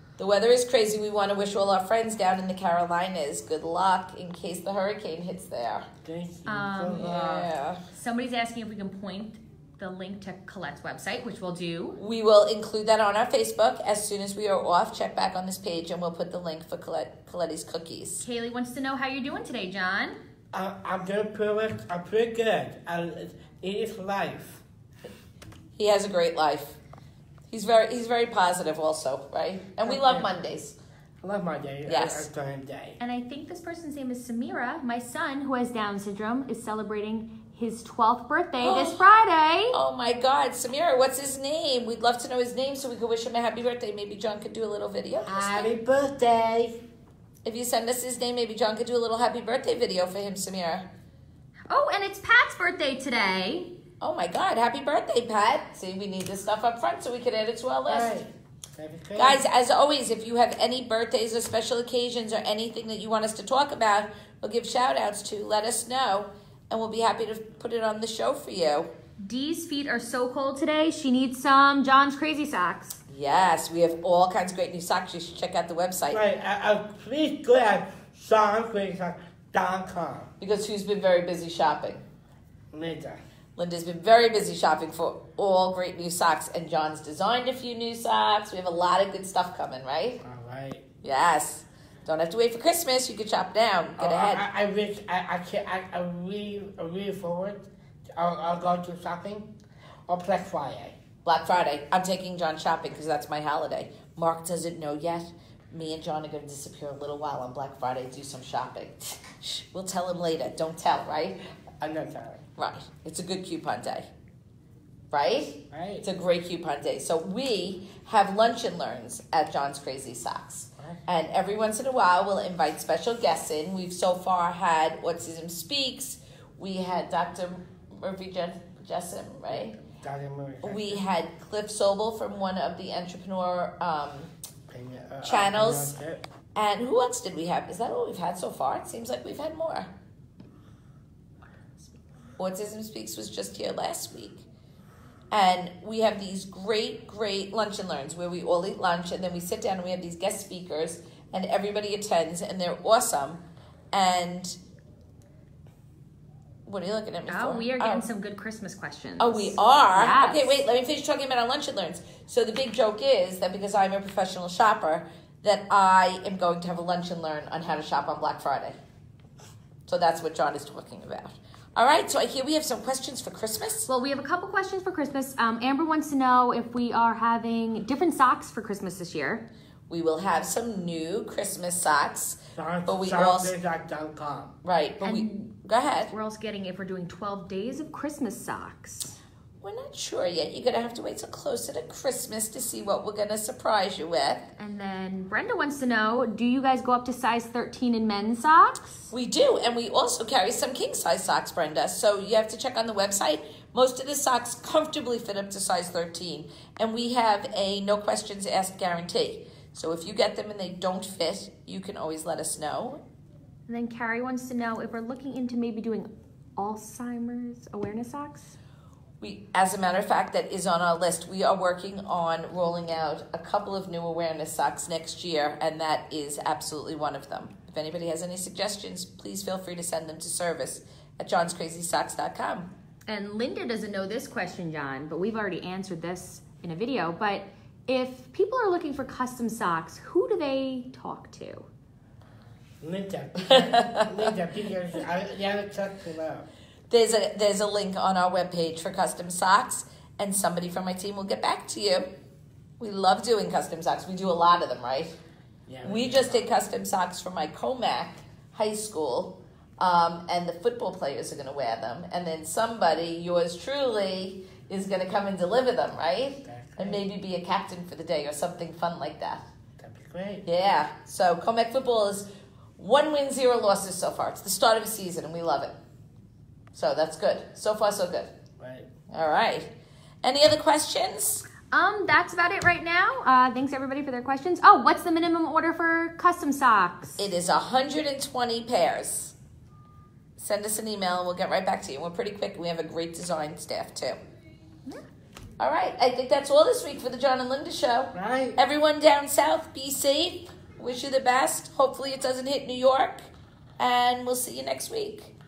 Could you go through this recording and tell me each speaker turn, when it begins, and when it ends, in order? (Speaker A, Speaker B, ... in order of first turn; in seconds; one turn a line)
Speaker A: 0.2-5.9
Speaker B: 6.0-7.5
Speaker C: 6.5-12.0
Speaker A: 7.0-7.8
Speaker A: 12.0-18.3
Speaker C: 18.2-20.2
Speaker B: 20.5-24.6
Speaker A: 25.8-26.8
Speaker A: 27.5-30.8
Speaker B: 29.8-30.3
Speaker B: 31.2-33.0
Speaker A: 31.9-32.3
Speaker C: 33.0-39.8
Speaker A: 38.6-39.0
Speaker A: 39.7-45.7
Speaker B: 45.2-46.8
Speaker A: 47.4-50.9
Speaker C: 51.7-53.7
Speaker A: 54.0-58.2
Speaker B: 57.9-59.4
Speaker A: 59.2-68.9
Speaker C: 69.2-73.0
Speaker A: 73.1-76.2
Speaker B: 76.1-80.3
Speaker A: 80.4-82.0
Speaker B: 82.7-83.2
Speaker A: 83.6-90.2
Speaker B: 90.2-90.8
Speaker A: 91.0-94.5
Speaker B: 94.0-99.5
Speaker B: 100.1-101.0
Speaker A: 101.2-111.4
Speaker B: 111.8-112.4
Speaker A: 112.6-114.1
Speaker A: 115.1-129.8
Speaker B: 115.7-116.1
Speaker B: 129.5-131.0
Speaker A: 130.6-134.3
Speaker B: 134.7-136.2
Speaker A: 135.2-136.0
Speaker A: 136.6-139.9
Speaker A: 142.4-144.5
Speaker A: 145.3-154.6
Speaker A: 156.7-158.0
Speaker C: 157.3-160.6
Speaker A: 159.2-168.8
Speaker A: 169.9-173.9
Speaker C: 173.9-179.5
Speaker A: 179.9-183.5
Speaker B: 182.6-184.6
Speaker A: 184.6-186.1
Speaker C: 185.0-189.2
Speaker A: 189.6-194.5
Speaker C: 194.6-199.1
Speaker A: 199.1-213.0
Speaker C: 213.7-218.6
Speaker A: 219.2-232.7
Speaker C: 233.1-241.7
Speaker B: 242.8-246.5
Speaker A: 243.4-244.3
Speaker A: 246.9-252.1
Speaker A: 252.8-255.2
Speaker B: 255.7-256.5
Speaker A: 255.8-269.5
Speaker B: 266.4-267.0
Speaker B: 269.8-270.5
Speaker A: 270.4-275.7
Speaker A: 276.7-278.3
Speaker B: 278.6-278.9
Speaker A: 279.1-279.7
Speaker A: 280.2-281.5
Speaker C: 281.7-287.3
Speaker A: 287.2-289.4
Speaker A: 290.4-294.2
Speaker A: 295.6-303.2
Speaker B: 298.1-298.6
Speaker A: 303.8-305.3